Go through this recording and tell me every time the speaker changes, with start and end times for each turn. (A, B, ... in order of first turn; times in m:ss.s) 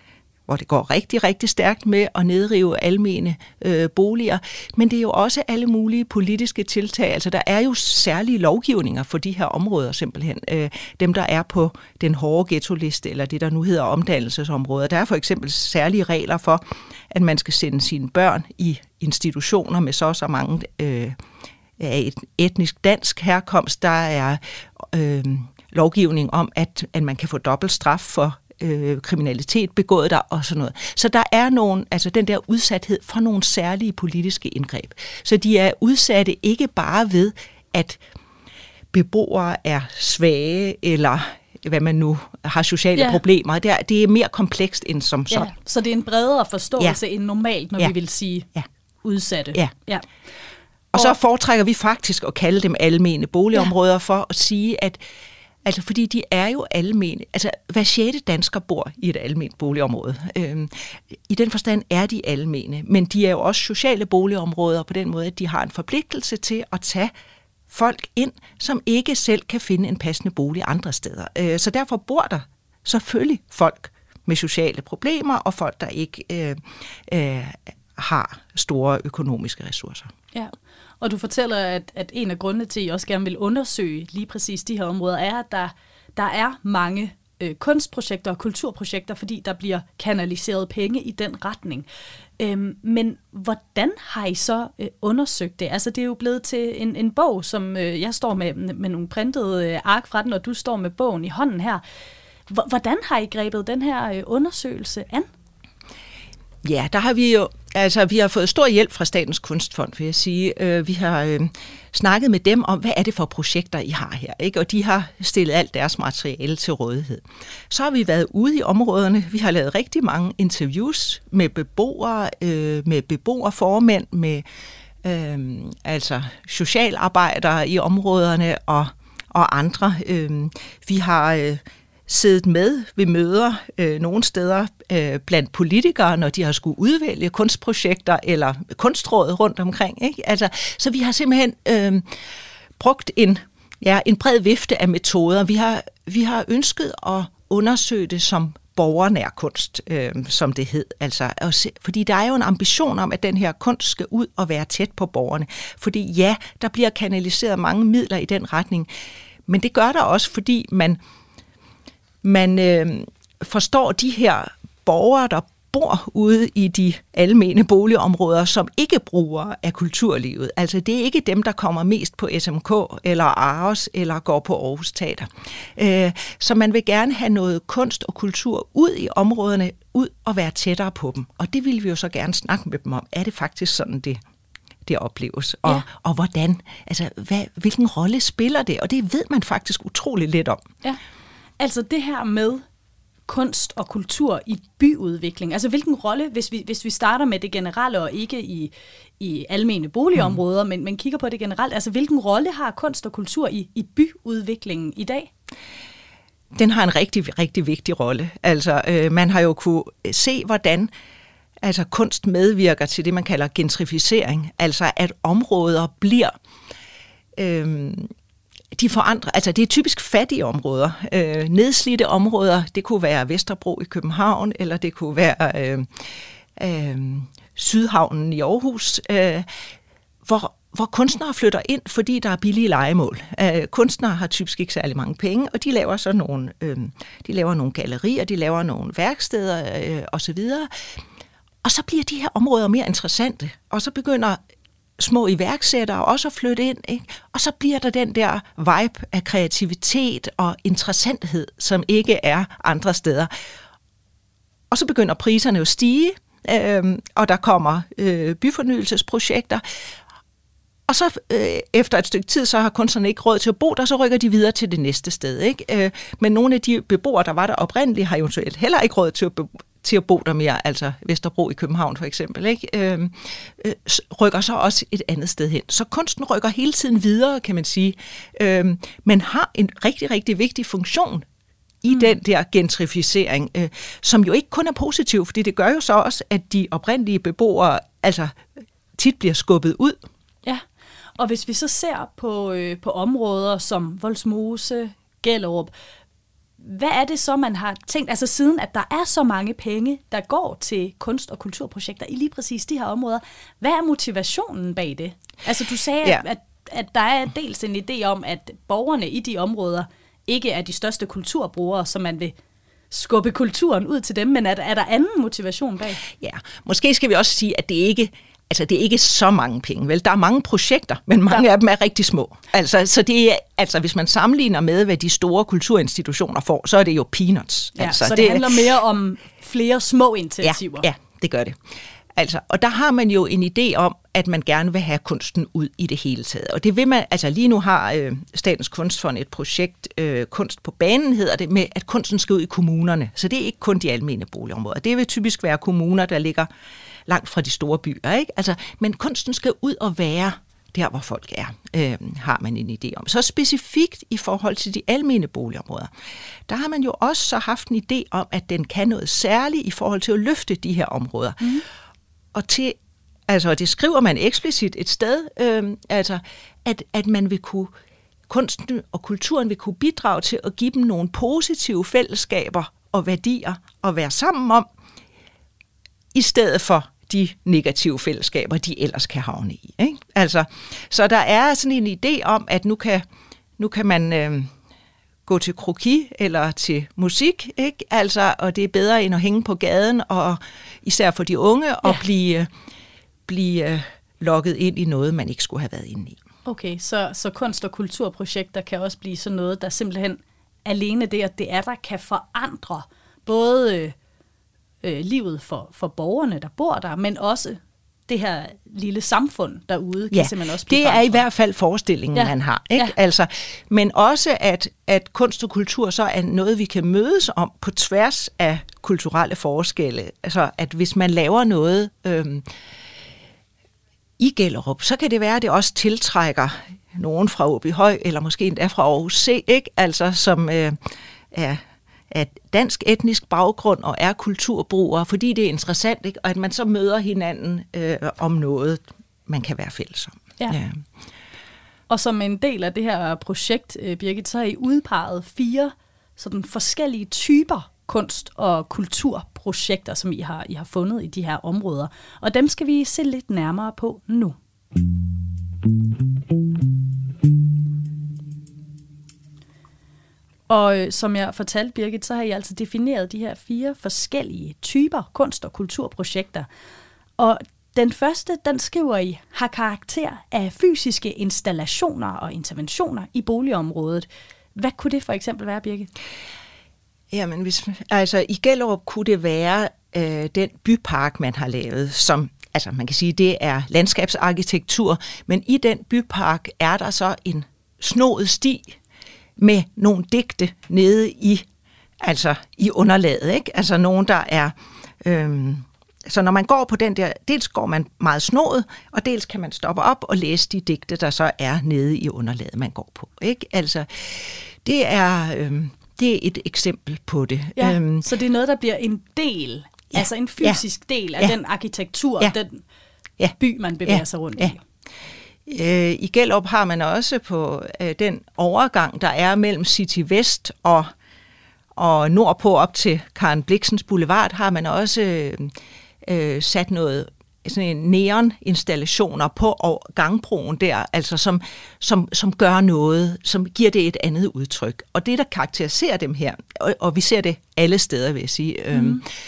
0:00.5-0:21.2 A
0:21.8-0:38.0 A
0:38.9-0:45.5 A
0:43.0-0:43.2 B
0:45.3-0:48.5 B
0:49.0-0:50.0 B
0:50.9-0:55.0 A
0:55.6-1:07.1 A
1:07.7-1:20.1 A
1:20.3-1:31.8 B
1:32.4-1:41.8 B
1:42.5-1:45.3 B
1:46.6-2:04.4 A
2:05.0-2:22.0 A
2:22.8-2:38.9 A
2:39.5-2:41.0 A
2:42.2-3:04.2 A
3:04.8-3:10.6 A
3:11.6-3:12.6 B
3:13.3-3:25.3 B
3:26.5-3:30.9 A
3:31.6-3:36.3 A
3:37.4-3:38.1 A
3:38.7-3:49.6 A
3:50.2-4:01.0 A
4:01.6-4:04.4 A
4:05.0-4:13.3 A
4:14.7-4:19.6 A
4:20.9-4:41.2 A
4:41.8-4:48.4 A
4:49.0-4:50.0 A
4:51.2-4:55.7 B
4:56.6-5:12.3 B
5:12.9-5:16.0 B
5:16.0-5:28.6 A
5:27.8-5:30.9 B
5:30.4-5:31.6 A
5:32.1-5:46.5 A
5:47.1-5:55.9 A
5:56.5-6:01.6 A
6:02.3-6:07.7 A
6:08.3-6:14.6 A
6:16.1-6:23.0 A
6:23.6-6:24.5 A
6:25.2-6:32.5 A
6:33.3-6:36.2 A
6:36.4-6:44.0 B
6:44.8-6:51.2 B
6:50.1-7:02.4 A
6:52.1-6:52.9 B
7:04.2-7:20.8 A
7:21.9-7:34.4 B
7:40.5-7:46.5 B
7:47.2-7:55.9 B
7:57.1-8:08.8 A
8:09.4-8:11.4 A
8:12.0-8:28.0 A
8:27.6-8:32.6 B
8:29.9-8:30.6 A
8:33.2-8:34.5 A
8:33.4-8:34.6 B
8:35.4-8:40.9 A
8:41.8-8:59.0 A
8:58.7-8:59.0 B